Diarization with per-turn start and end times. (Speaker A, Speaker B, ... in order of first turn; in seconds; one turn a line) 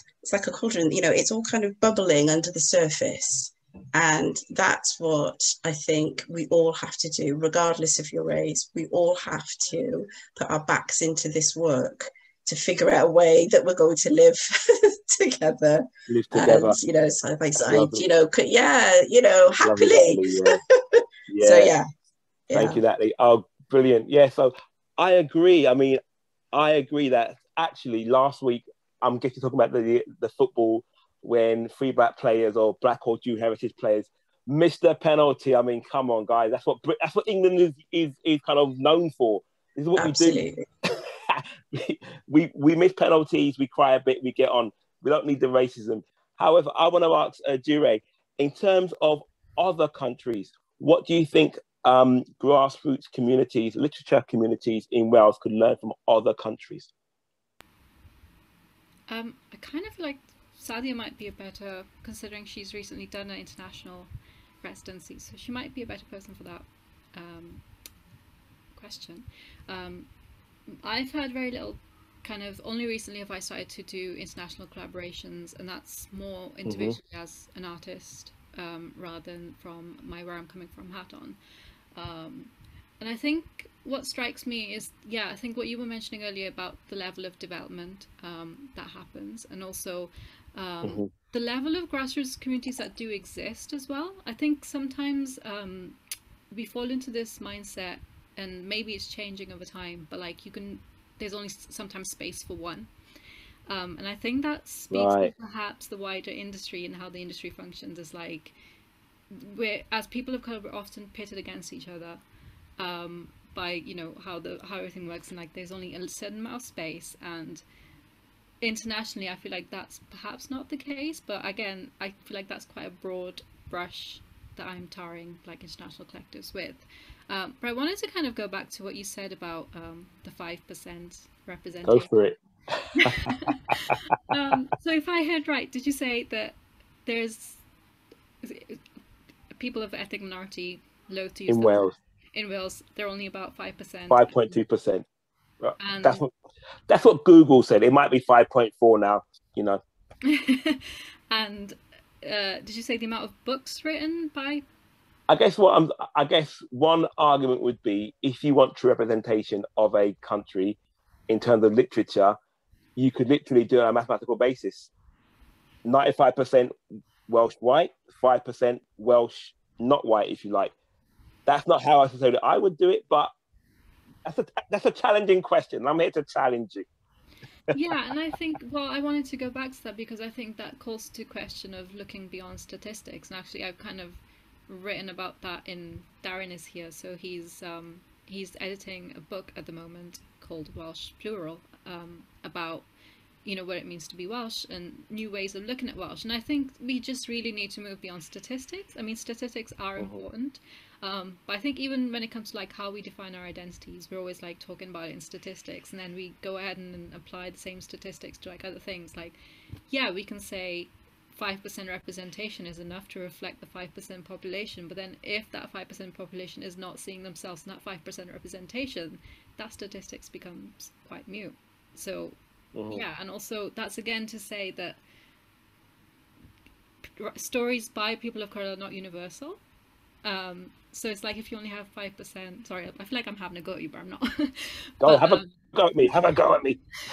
Speaker A: 0.2-21.9
Speaker B: 16.1-16.8
Speaker B: 17.6-18.1
Speaker B: 19.6-20.6
Speaker B: 21.3-21.7
Speaker A: 22.5-22.8
Speaker B: 22.5-26.0
Speaker B: 26.5-56.9
Speaker A: 40.0-40.6
Speaker C: 59.1-67.7
Speaker C: 68.7-70.1
Speaker C: 70.7-81.4
Speaker B: 76.7-77.0
Speaker C: 81.9-96.0
Speaker B: 90.8-91.1
Speaker C: 96.5-102.9
Speaker C: 103.7-108.5
Speaker B: 104.9-105.3
Speaker C: 109.3-112.2
Speaker C: 112.8-117.6
Speaker C: 118.6-132.1
Speaker B: 131.8-133.9
Speaker C: 132.9-137.6
Speaker C: 138.4-138.8
Speaker C: 139.5-144.6
Speaker B: 141.5-141.9
Speaker B: 144.1-145.0
Speaker B: 145.6-146.3
Speaker C: 145.8-146.2
Speaker B: 146.9-149.8
Speaker C: 150.2-154.6
Speaker B: 155.3-160.8
Speaker B: 161.3-162.4
Speaker B: 162.9-164.9
Speaker B: 165.8-166.8
Speaker B: 167.3-170.7
Speaker B: 171.4-173.3
Speaker B: 174.2-176.8
Speaker C: 177.7-192.9
Speaker C: 193.4-222.4
Speaker B: 222.7-223.0
Speaker C: 222.9-225.0
Speaker C: 227.0-229.6
Speaker C: 230.2-235.6
Speaker B: 235.0-236.8